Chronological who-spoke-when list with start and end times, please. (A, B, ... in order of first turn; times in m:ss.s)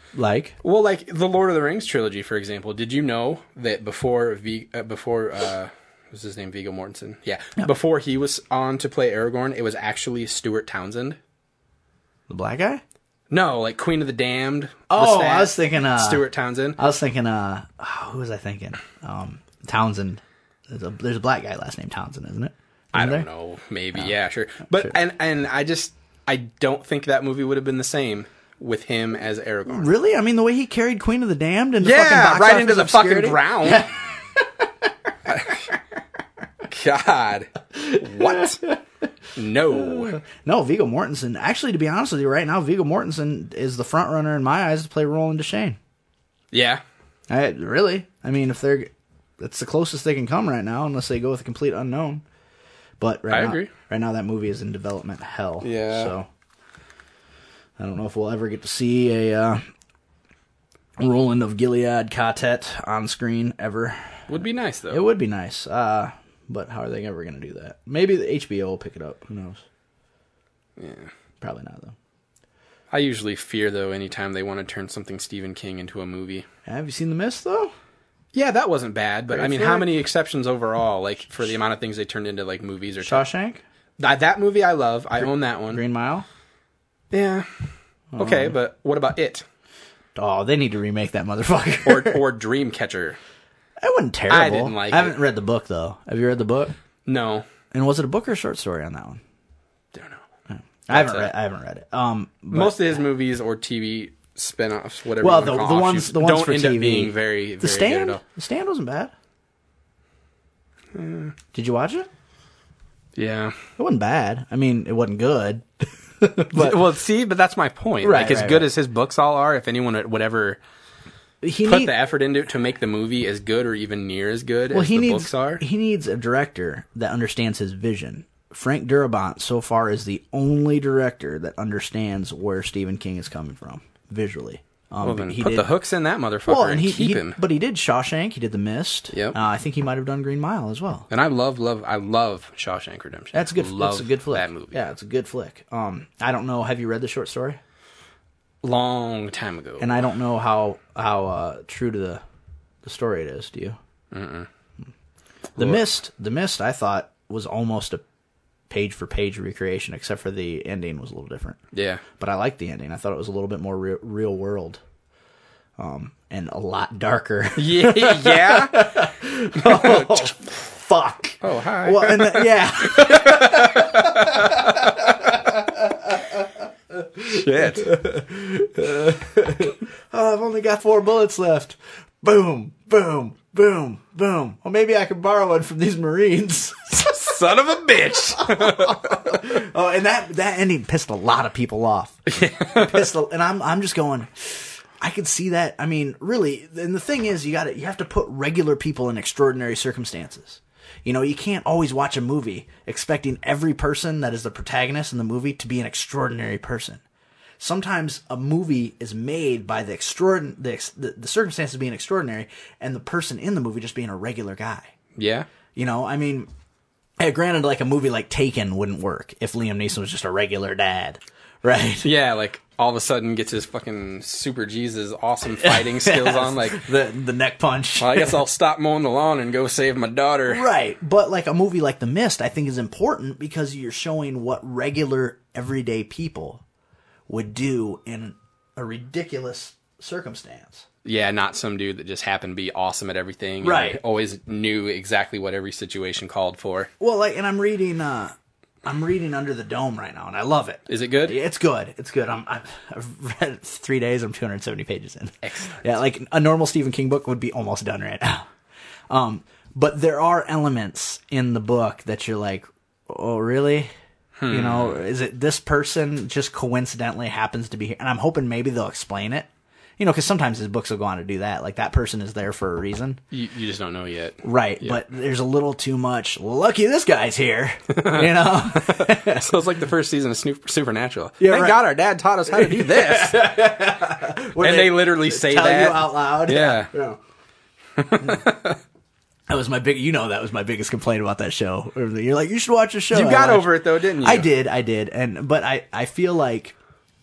0:00.1-0:00.5 A
0:00.6-0:11.2 B
0:12.3-0:12.8 A
0:13.3-0:16.8 B
0:14.9-0:23.3 A
0:22.9-0:29.9 B
0:24.7-0:25.0 A
0:29.7-0:34.9 A
0:31.8-0:33.8 B
0:35.3-0:35.6 B
0:36.7-0:38.6 B
0:37.7-0:38.8 A
0:39.4-0:40.2 B
0:39.7-0:45.8 A
0:46.5-0:46.8 B
0:47.3-0:52.2 A
0:53.0-0:56.3 A
0:53.3-0:53.7 B
0:55.6-0:56.1 B
0:57.8-0:59.6 A
1:01.0-1:04.3 A
1:04.3-1:05.0 B
1:04.9-1:09.6 A
1:10.8-1:11.1 B
1:11.4-1:11.9 A
1:12.9-1:16.4 B
1:16.6-1:17.7 A
1:18.3-1:23.3 B
1:19.3-1:19.9 A
1:23.0-1:23.6 A
1:24.0-1:25.8 B
1:25.7-1:26.2 A
1:27.1-1:27.5 B
1:28.1-1:28.5 A
1:28.2-1:29.4 B
1:30.1-1:32.2 A
1:31.8-1:33.2 B
1:33.8-1:36.7 A
1:34.3-1:35.2 B
1:37.0-1:37.5 B
1:37.7-1:39.2 A
1:39.9-1:40.2 B
1:40.5-1:43.0 A
1:40.9-1:41.3 B
1:42.5-1:48.2 B
1:45.2-1:49.1 A
1:50.9-1:51.3 B
1:51.5-1:52.1 A
1:53.2-1:53.6 B
1:53.8-1:56.8 A
1:56.5-2:00.6 B
1:58.0-1:58.7 A
2:01.4-2:01.9 A
2:01.6-2:05.6 B
2:04.7-2:15.7 A
2:15.0-2:17.4 B
2:16.4-2:21.1 A
2:19.1-2:19.4 B
2:21.1-2:24.8 B
2:23.3-2:27.6 A
2:28.6-2:30.0 B
2:29.8-2:32.2 A
2:32.8-2:33.8 A
2:34.1-2:34.5 B
2:35.6-2:35.8 B
2:35.6-2:38.0 A
2:38.7-2:41.6 A
2:41.7-2:42.0 B
2:42.1-2:44.8 A
2:45.8-3:07.4 A
2:47.6-2:49.0 B
2:49.6-2:50.3 B
2:51.4-2:55.1 B
2:57.2-2:58.0 B
3:07.0-3:09.4 B
3:08.3-3:27.0 A
3:12.3-3:13.0 B
3:27.6-3:34.9 A
3:35.2-3:35.5 B
3:35.7-3:36.5 A
3:37.2-3:42.1 A
3:42.0-3:46.8 B
3:45.5-3:48.4 A
3:48.0-3:50.6 B
3:50.5-3:56.6 A
3:57.3-4:00.8 A
4:01.0-4:06.9 B
4:03.6-4:04.0 A
4:07.0-4:18.5 A
4:10.9-4:11.4 B
4:15.4-4:15.9 B
4:19.1-4:23.9 A
4:24.4-4:25.0 B
4:24.5-4:33.2 A
4:33.3-4:35.0 B
4:34.4-4:39.5 A
4:37.9-4:43.6 B
4:41.4-4:41.9 A
4:42.5-4:47.2 A
4:44.6-4:46.9 B
4:48.0-4:48.8 B
4:48.2-4:48.4 A
4:49.5-4:56.8 A
4:53.1-4:54.5 B